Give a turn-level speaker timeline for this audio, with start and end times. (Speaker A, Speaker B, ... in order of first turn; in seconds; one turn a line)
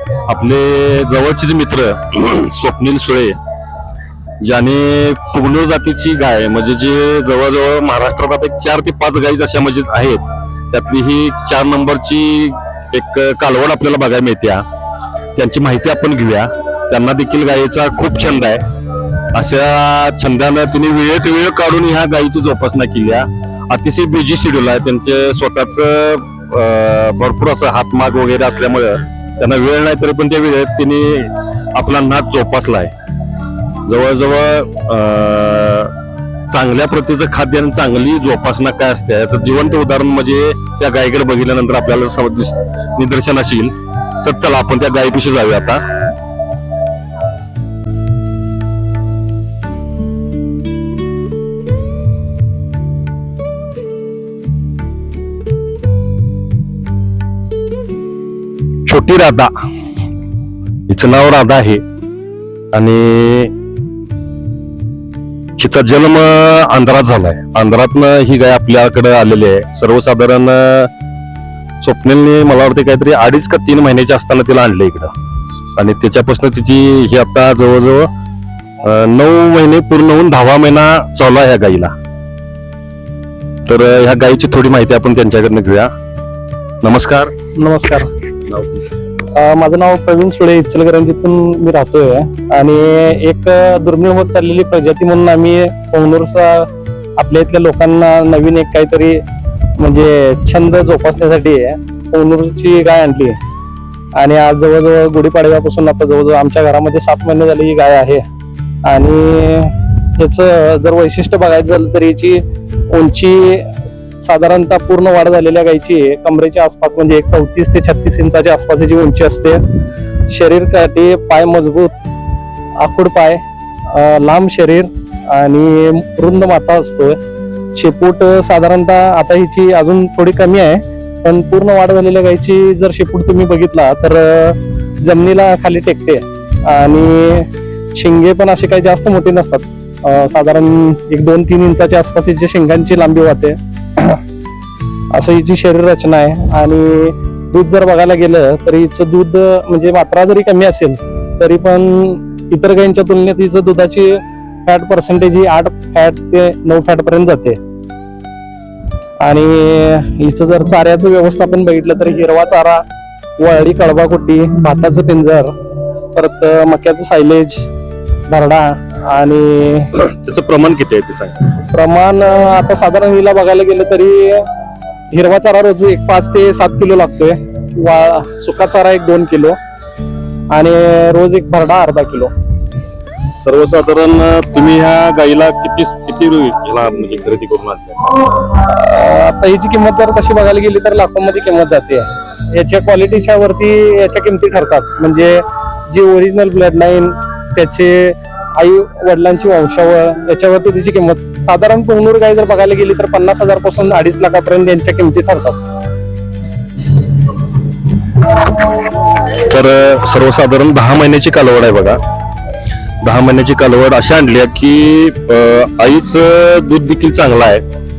Speaker A: 0.3-3.4
Speaker A: 4.4-14.7
Speaker A: 15.3-18.6
Speaker A: 19.3-32.9
Speaker A: 33.9-35.9
Speaker A: 36.5-46.0
Speaker A: 58.9-59.5
Speaker A: 60.9-61.8
Speaker A: 62.7-63.5
Speaker A: 65.6-70.9
Speaker A: 71.8-75.1
Speaker A: 75.8-78.1
Speaker A: 78.8-81.9
Speaker A: 83.7-85.9
Speaker A: 86.8-87.3
Speaker B: 87.6-88.1
Speaker A: 88.5-88.8
Speaker B: 89.3-99.2
Speaker B: 99.8-103.4
Speaker B: 104.2-108.2
Speaker B: 108.8-119.6
Speaker B: 120.3-122.0
Speaker B: 122.8-127.2
Speaker B: 127.8-144.2
Speaker B: 145.1-157.6
Speaker B: 159.2-162.8
Speaker B: 163.4-165.6
Speaker B: 166.1-167.7
Speaker B: 168.3-169.9
Speaker A: 169.9-171.6
Speaker B: 171.7-174.5
Speaker B: 175.1-179.6
Speaker B: 180.5-182.3
Speaker A: 183.4-188.2
Speaker B: 188.5-205.6
Speaker A: 209.3-212.0
Speaker A: 213.0-217.6